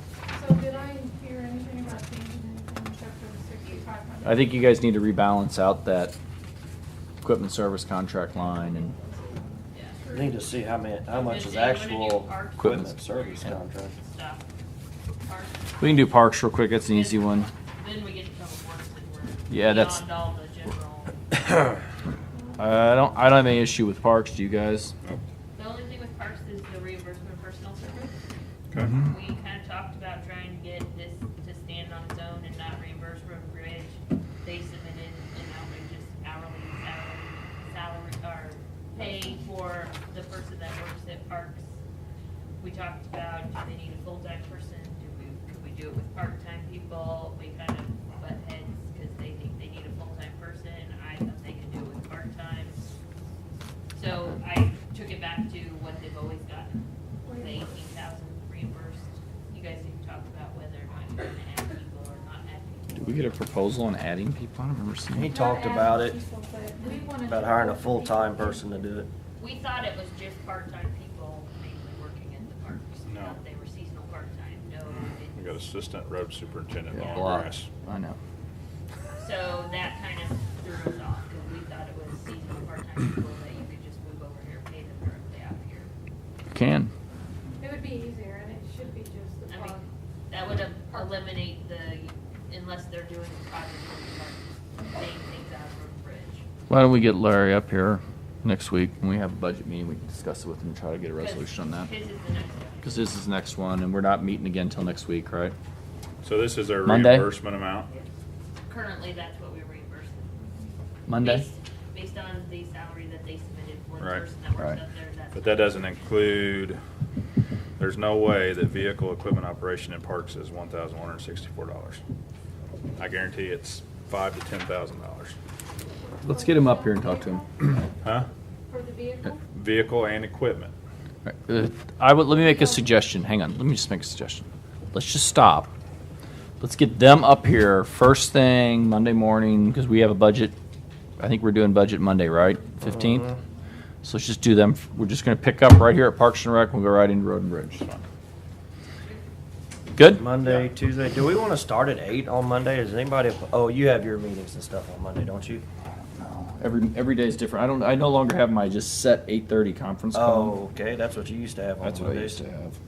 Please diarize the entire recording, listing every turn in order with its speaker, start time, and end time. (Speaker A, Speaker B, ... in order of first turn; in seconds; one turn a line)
Speaker A: 0.3-4.5
Speaker B: 4.2-6.1
Speaker B: 7.2-8.9
Speaker C: 9.7-10.0
Speaker D: 10.1-13.9
Speaker C: 11.1-14.5
Speaker B: 12.6-12.9
Speaker C: 15.2-16.2
Speaker B: 15.8-17.5
Speaker C: 16.9-21.2
Speaker B: 19.5-20.0
Speaker B: 22.6-24.9
Speaker C: 25.5-28.1
Speaker E: 28.7-29.0
Speaker C: 29.0-41.8
Speaker C: 42.6-52.8
Speaker C: 53.9-63.3
Speaker A: 57.2-57.8
Speaker B: 62.9-65.4
Speaker D: 65.1-66.2
Speaker A: 65.3-68.8
Speaker C: 66.8-67.0
Speaker D: 67.2-69.1
Speaker C: 69.4-75.7
Speaker E: 73.1-73.4
Speaker E: 75.3-77.7
Speaker C: 76.9-77.5
Speaker B: 77.0-78.2
Speaker D: 77.1-77.5
Speaker C: 79.2-85.9
Speaker B: 86.5-86.9
Speaker A: 87.6-89.9
Speaker C: 89.5-96.5
Speaker B: 96.7-101.9
Speaker C: 101.2-103.1
Speaker B: 102.8-105.5
Speaker E: 106.2-107.9
Speaker B: 106.8-107.3
Speaker C: 108.7-110.5
Speaker B: 111.1-111.5
Speaker C: 111.2-116.0
Speaker E: 115.3-116.8
Speaker E: 117.8-122.0
Speaker E: 123.0-125.3
Speaker A: 126.2-127.6
Speaker B: 126.2-127.5
Speaker A: 128.7-129.4
Speaker E: 129.5-130.7
Speaker B: 131.2-135.7
Speaker B: 136.6-140.5
Speaker B: 141.2-143.3
Speaker B: 144.0-148.1
Speaker B: 149.9-150.2
Speaker D: 150.2-155.7
Speaker E: 156.2-156.5
Speaker B: 156.6-160.6
Speaker D: 160.1-162.4
Speaker B: 161.8-162.8